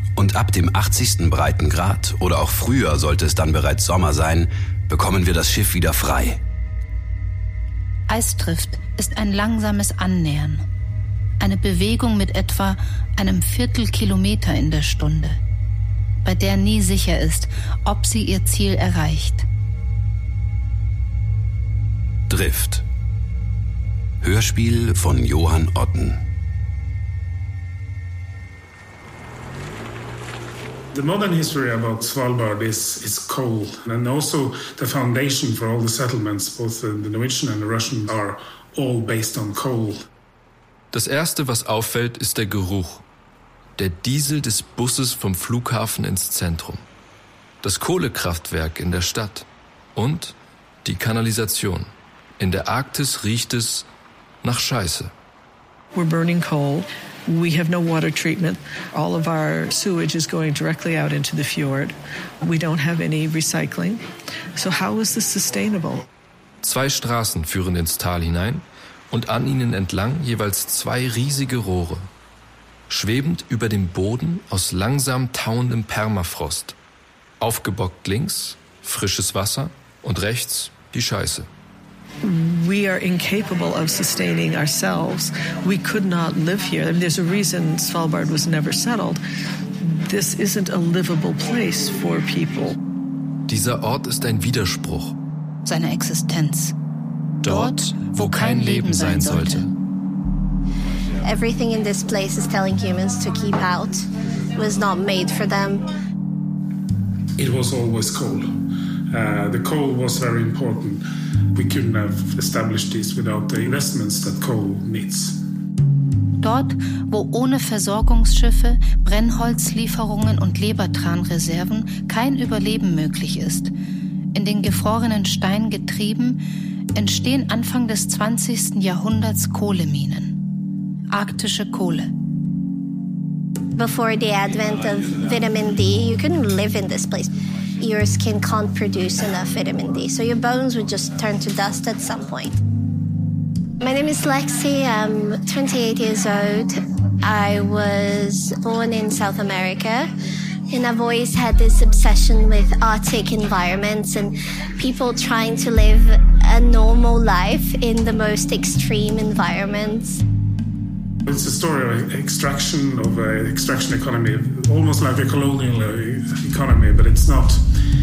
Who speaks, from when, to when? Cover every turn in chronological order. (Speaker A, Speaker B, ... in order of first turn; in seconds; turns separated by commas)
Speaker A: 0.1-6.4, Speaker B: 8.1-10.6, Speaker B: 11.4-15.4, Speaker B: 16.2-19.4, Speaker A: 22.3-22.8, Speaker A: 24.2-26.2, Speaker C: 30.9-40.1, Speaker D: 40.9-43.0, Speaker D: 43.8-46.8, Speaker D: 47.6-53.9, Speaker D: 54.4-55.1, Speaker E: 55.9-64.0, Speaker E: 64.5-66.0, Speaker D: 66.6-72.1, Speaker D: 72.9-76.7, Speaker D: 77.4-81.5, Speaker E: 82.2-89.2, Speaker E: 89.8-92.8, Speaker D: 93.5-95.1, Speaker B: 95.6-96.7, Speaker D: 97.4-99.7, Speaker B: 97.4-99.7, Speaker F: 101.2-105.8, Speaker C: 107.4-108.5, Speaker C: 109.1-111.0, Speaker C: 111.5-115.4, Speaker B: 116.4-123.7, Speaker B: 124.3-126.4, Speaker B: 126.9-130.4, Speaker B: 131.1-132.1, Speaker F: 133.8-142.6, Speaker F: 143.8-150.1, Speaker F: 150.7-160.2, Speaker C: 161.2-167.7